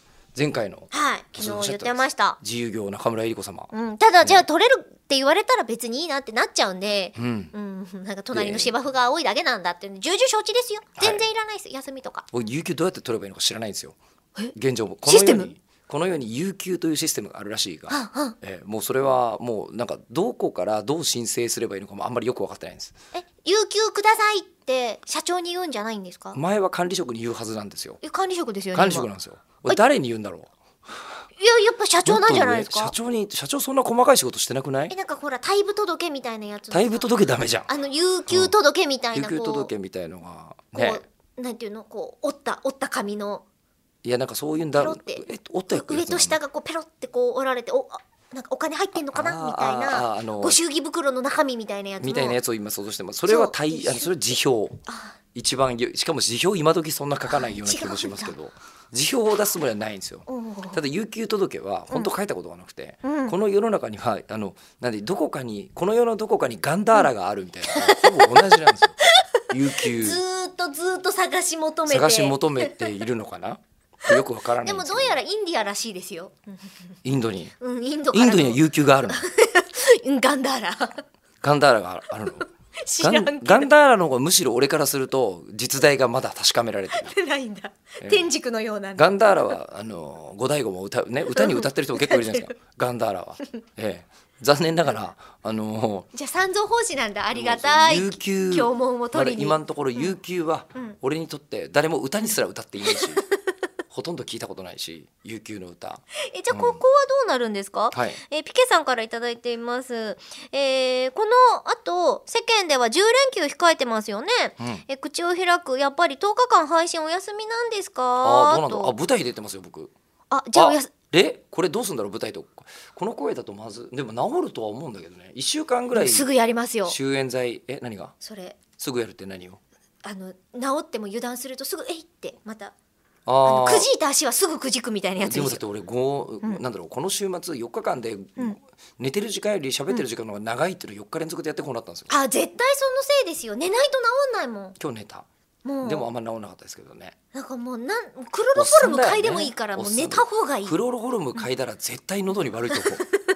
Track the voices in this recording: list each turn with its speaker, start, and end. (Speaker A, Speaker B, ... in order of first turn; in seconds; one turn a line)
Speaker A: 0.3-3.7
Speaker B: 0.9-2.4
Speaker B: 3.7-12.3
Speaker A: 7.2-7.5
Speaker A: 8.3-8.7
Speaker A: 11.0-11.2
Speaker A: 12.3-14.0
Speaker A: 14.5-22.9
Speaker B: 15.1-15.5
Speaker B: 17.9-18.4
Speaker B: 23.1-26.4
Speaker A: 26.3-28.0
Speaker B: 28.0-29.1
Speaker A: 28.7-30.5
Speaker B: 31.4-32.9
Speaker A: 32.0-34.9
Speaker B: 34.9-37.1
Speaker A: 36.7-37.7
Speaker B: 37.7-39.7
Speaker A: 39.1-41.0
Speaker B: 40.7-43.4
Speaker A: 44.0-46.4
Speaker B: 44.8-52.4
Speaker A: 49.1-50.6
Speaker A: 52.0-54.8
Speaker B: 53.3-54.1
Speaker B: 54.9-55.2
Speaker A: 55.3-69.0
Speaker B: 57.3-58.4
Speaker B: 60.3-60.8
Speaker B: 63.0-63.4
Speaker B: 67.7-72.9
Speaker A: 69.5-70.2
Speaker A: 71.9-75.2
Speaker B: 74.1-76.9
Speaker A: 77.0-77.5
Speaker B: 77.6-81.0
Speaker A: 78.1-79.2
Speaker A: 81.4-82.5
Speaker B: 82.4-83.7
Speaker A: 83.0-87.2
Speaker B: 86.9-89.5
Speaker A: 88.0-88.3
Speaker A: 89.0-96.1
Speaker B: 91.3-92.5
Speaker B: 96.1-100.2
Speaker A: 97.3-103.2
Speaker B: 102.8-103.3
Speaker A: 103.9-106.8
Speaker B: 106.2-118.9
Speaker A: 107.9-108.2
Speaker A: 114.6-114.8
Speaker A: 118.2-119.9
Speaker B: 120.3-120.9
Speaker A: 120.5-126.3
Speaker B: 125.9-127.0
Speaker A: 126.9-128.1
Speaker B: 128.2-128.6
Speaker A: 128.8-129.6
Speaker B: 130.0-132.8
Speaker A: 133.3-133.9
Speaker B: 133.4-135.6
Speaker A: 135.2-142.1
Speaker B: 142.1-144.8
Speaker A: 144.8-145.3
Speaker B: 145.7-146.1
Speaker A: 145.8-147.2
Speaker B: 147.3-150.8
Speaker A: 148.6-153.1